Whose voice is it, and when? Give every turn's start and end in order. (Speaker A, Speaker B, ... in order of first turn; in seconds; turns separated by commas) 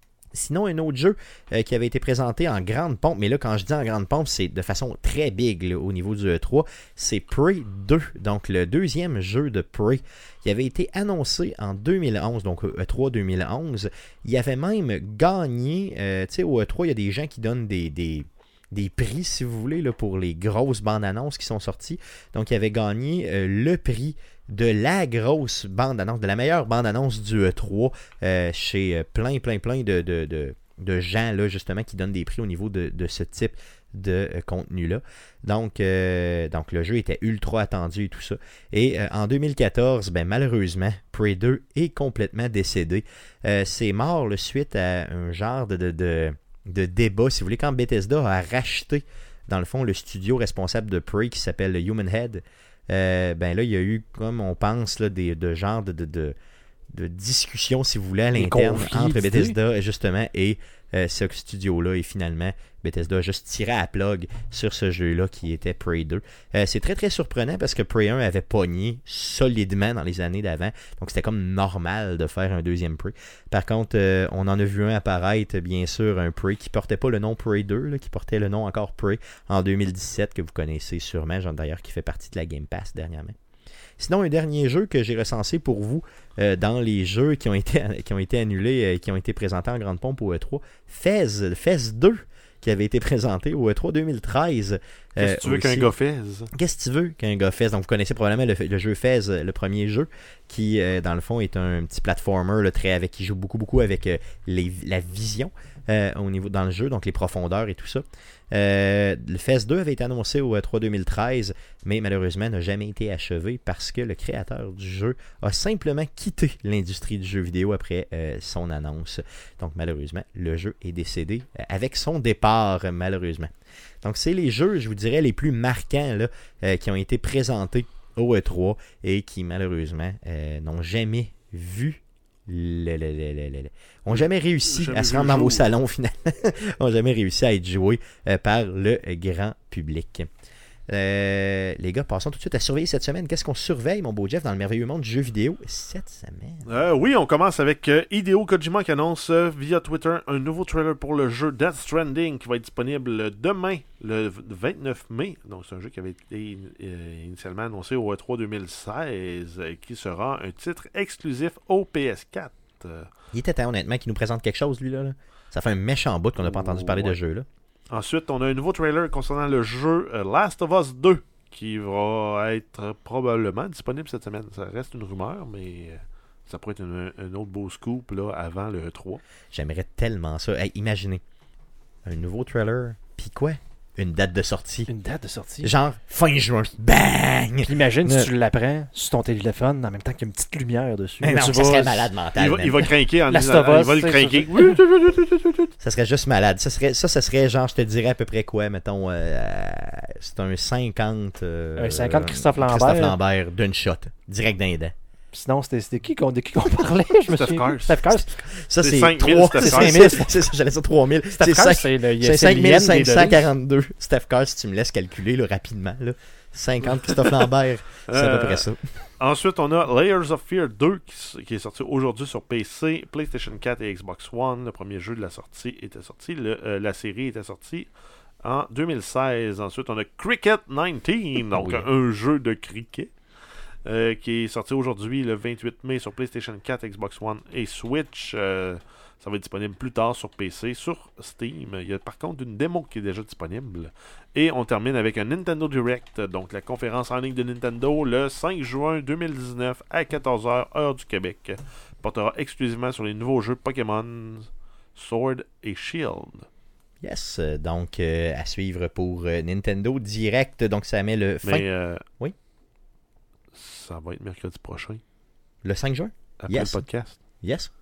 Speaker A: 0.3-56.3, Speaker A: 56.9-83.4, Speaker B: 58.3-59.6, Speaker A: 84.0-95.9, Speaker C: 95.2-96.5, Speaker A: 96.5-123.5, Speaker A: 124.0-140.3, Speaker C: 134.1-135.7, Speaker A: 140.9-146.7, Speaker C: 146.6-163.1, Speaker A: 163.3-167.5, Speaker C: 166.4-167.2, Speaker C: 167.9-179.2, Speaker A: 179.5-181.2, Speaker A: 182.0-184.9, Speaker B: 184.9-185.7, Speaker A: 185.6-188.3, Speaker B: 187.6-192.1, Speaker A: 191.2-192.8, Speaker C: 192.3-195.0, Speaker B: 193.3-194.8, Speaker A: 195.7-204.9, Speaker B: 201.8-203.2, Speaker B: 205.3-208.3, Speaker C: 207.3-208.1, Speaker A: 208.4-218.8, Speaker C: 208.8-210.2, Speaker B: 209.6-210.5, Speaker B: 211.3-213.5, Speaker C: 217.1-217.4, Speaker C: 218.1-218.7, Speaker C: 219.2-227.9, Speaker C: 228.4-233.1, Speaker A: 231.5-231.9, Speaker C: 233.8-256.5, Speaker A: 257.0-261.6, Speaker C: 261.4-262.0, Speaker C: 263.5-265.0, Speaker A: 265.6-266.8, Speaker C: 266.4-267.2, Speaker A: 267.4-267.7